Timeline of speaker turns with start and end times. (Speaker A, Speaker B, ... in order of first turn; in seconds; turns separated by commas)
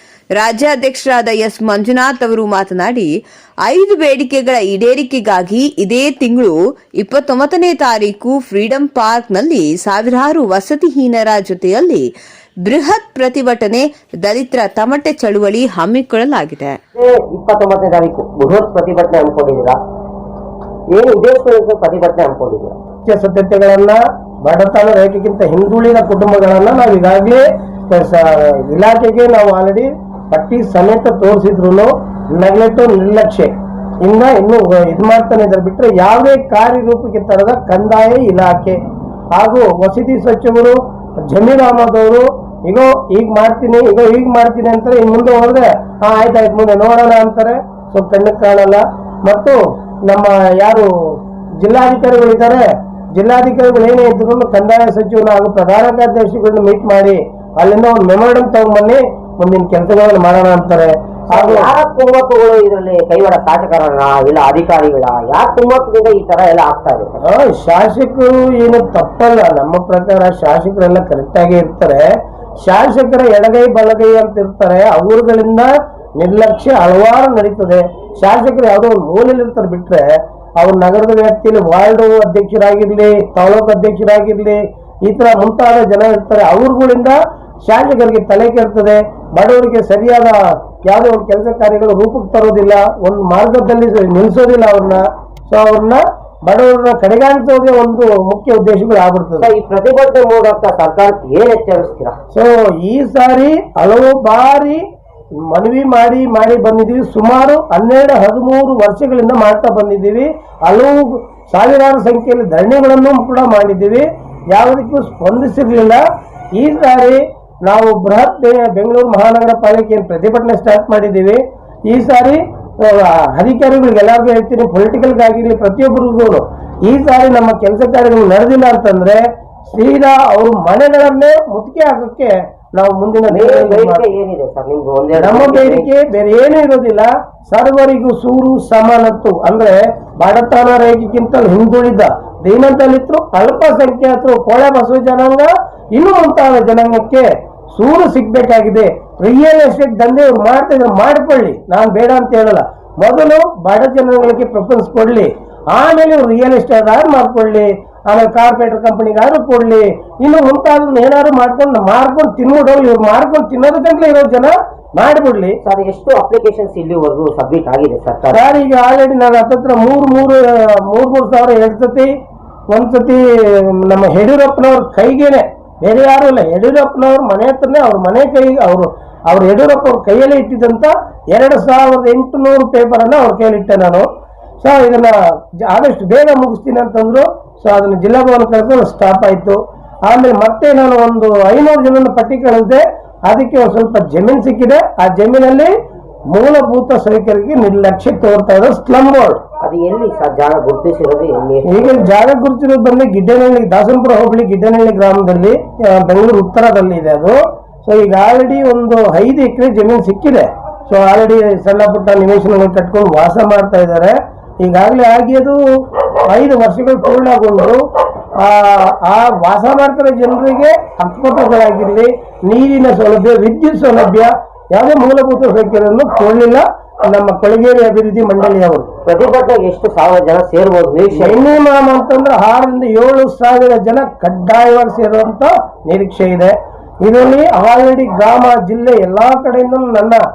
Speaker A: 0.3-12.1, Speaker A: 12.6-16.8, Speaker B: 16.9-19.8, Speaker B: 20.9-22.8, Speaker C: 23.1-33.5, Speaker C: 34.0-38.8, Speaker C: 39.3-52.6, Speaker C: 53.2-61.7, Speaker B: 61.3-67.2, Speaker C: 67.2-80.1, Speaker C: 80.6-99.5, Speaker B: 99.4-102.2, Speaker C: 102.3-104.8, Speaker C: 105.5-116.0, Speaker C: 116.6-134.1, Speaker B: 133.3-135.9, Speaker C: 135.2-165.6, Speaker B: 165.6-168.5, Speaker C: 168.3-172.1, Speaker C: 172.7-184.1, Speaker C: 184.6-195.7, Speaker C: 196.3-199.4, Speaker B: 199.6-202.1, Speaker C: 201.7-215.6, Speaker C: 216.2-217.8, Speaker C: 218.4-228.9, Speaker B: 229.1-231.5, Speaker C: 231.2-240.2